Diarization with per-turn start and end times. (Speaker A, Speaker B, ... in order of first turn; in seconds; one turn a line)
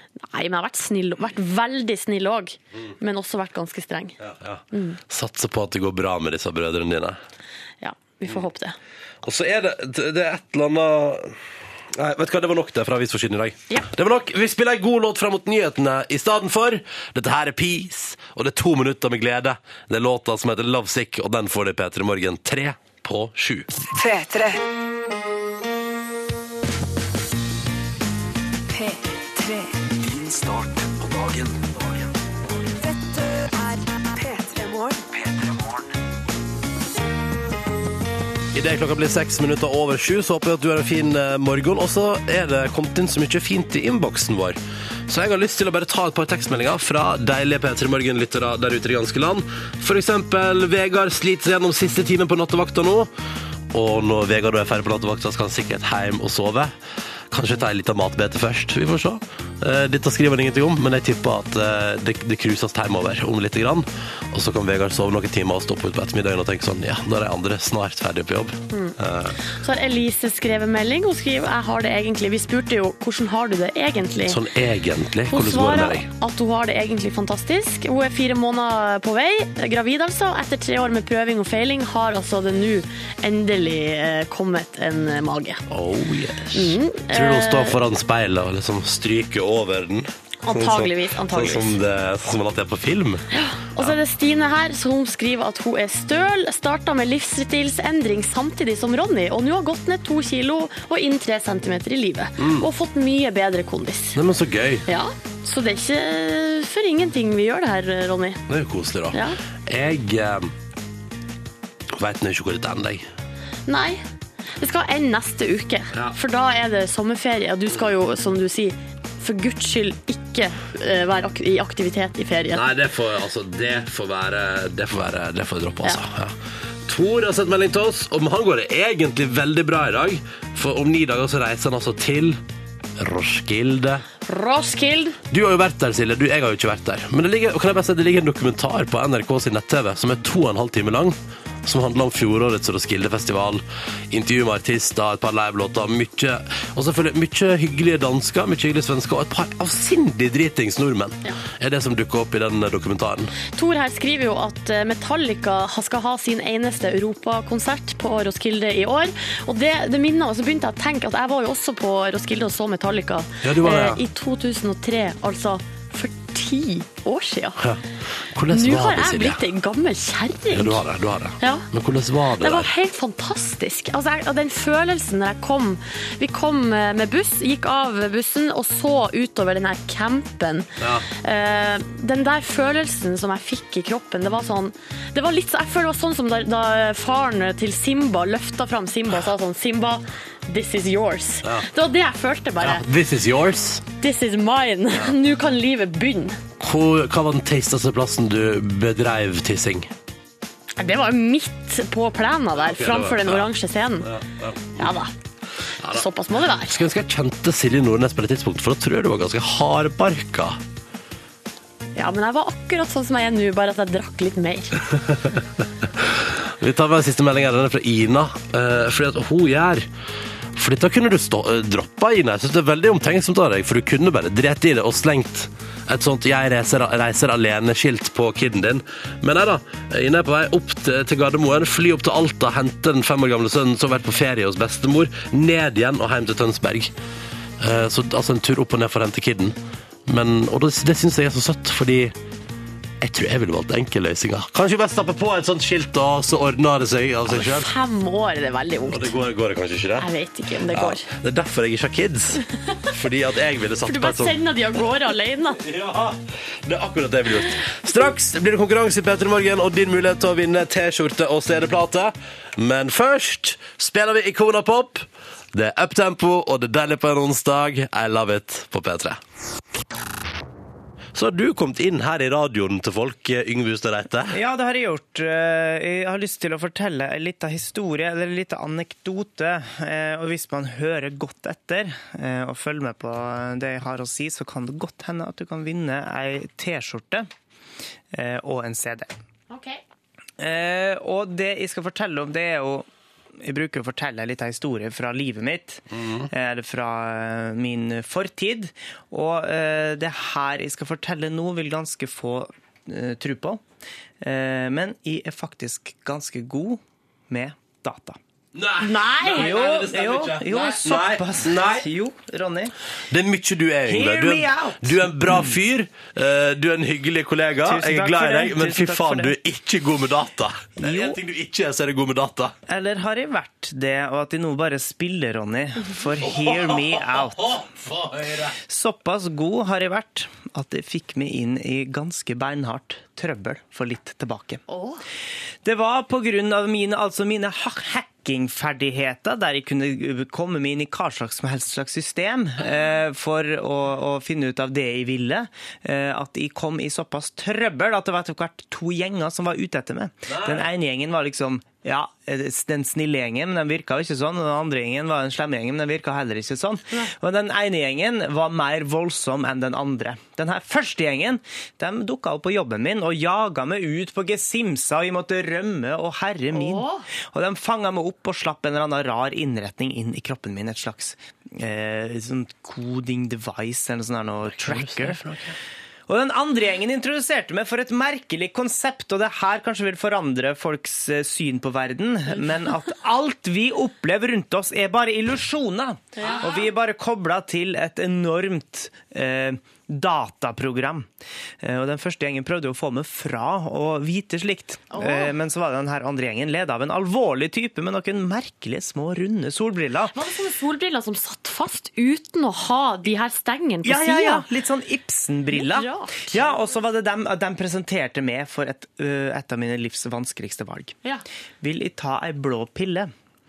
Speaker A: 0.2-4.2
Speaker B: 4.2-7.2
Speaker A: 4.7-5.0
Speaker A: 7.8-8.8
Speaker B: 9.2-11.3
Speaker B: 11.9-23.7
Speaker C: 23.9-24.6
Speaker C: 28.7-29.9
Speaker D: 30.0-32.1
Speaker C: 32.8-35.3
Speaker D: 35.3-35.8
Speaker B: 38.5-53.1
Speaker B: 53.7-56.7
Speaker B: 57.3-69.4
Speaker A: 68.7-74.4
Speaker B: 74.2-76.1
Speaker A: 75.3-85.6
Speaker B: 85.7-93.2
Speaker A: 86.5-87.8
Speaker A: 90.4-91.8
Speaker A: 93.3-104.2
Speaker B: 102.4-102.7
Speaker B: 104.1-104.8
Speaker A: 104.9-108.4
Speaker B: 108.5-110.5
Speaker A: 109.1-109.4
Speaker B: 111.9-113.1
Speaker A: 113.7-114.0
Speaker A: 114.6-122.6
Speaker B: 122.5-132.4
Speaker B: 133.0-134.0
Speaker A: 134.2-135.2
Speaker B: 135.3-153.3
Speaker A: 153.5-167.6
Speaker B: 163.4-164.0
Speaker B: 167.6-169.4
Speaker A: 168.5-170.8
Speaker B: 170.5-172.7
Speaker A: 171.4-171.7
Speaker A: 172.4-192.8
Speaker B: 180.8-181.1
Speaker B: 192.6-193.8
Speaker A: 194.0-196.4
Speaker B: 196.6-199.9
Speaker A: 200.8-204.1
Speaker B: 202.6-203.5
Speaker B: 204.0-204.9
Speaker A: 204.8-205.1
Speaker B: 205.8-210.6
Speaker A: 205.9-206.8
Speaker A: 211.9-214.8
Speaker B: 214.9-219.9
Speaker B: 220.5-236.9
Speaker B: 237.6-242.1
Speaker B: 243.0-247.7
Speaker A: 247.3-249.1
Speaker B: 248.9-250.1
Speaker A: 250.0-251.1
Speaker B: 250.7-254.3
Speaker A: 253.8-255.6
Speaker B: 255.6-269.2
Speaker B: 271.1-274.3
Speaker E: 274.3-287.3
Speaker E: 288.1-289.1
Speaker A: 289.5-289.8
Speaker E: 290.4-292.9
Speaker E: 293.4-303.6
Speaker B: 296.0-296.3
Speaker E: 304.2-308.2
Speaker B: 308.5-311.9
Speaker A: 308.8-309.5
Speaker E: 309.3-312.7
Speaker B: 313.1-322.5
Speaker E: 313.9-315.5
Speaker E: 317.6-319.3
Speaker E: 320.8-321.2
Speaker E: 322.7-327.7
Speaker B: 326.2-328.6
Speaker E: 328.7-334.6
Speaker A: 334.7-335.0
Speaker E: 335.6-375.2
Speaker B: 350.3-350.6
Speaker A: 366.5-367.0
Speaker B: 374.5-375.6
Speaker E: 376.1-391.1
Speaker A: 386.2-386.6
Speaker E: 391.6-400.1
Speaker A: 394.9-395.3
Speaker A: 400.1-404.4
Speaker E: 403.8-410.9
Speaker A: 405.5-406.5
Speaker E: 411.6-413.1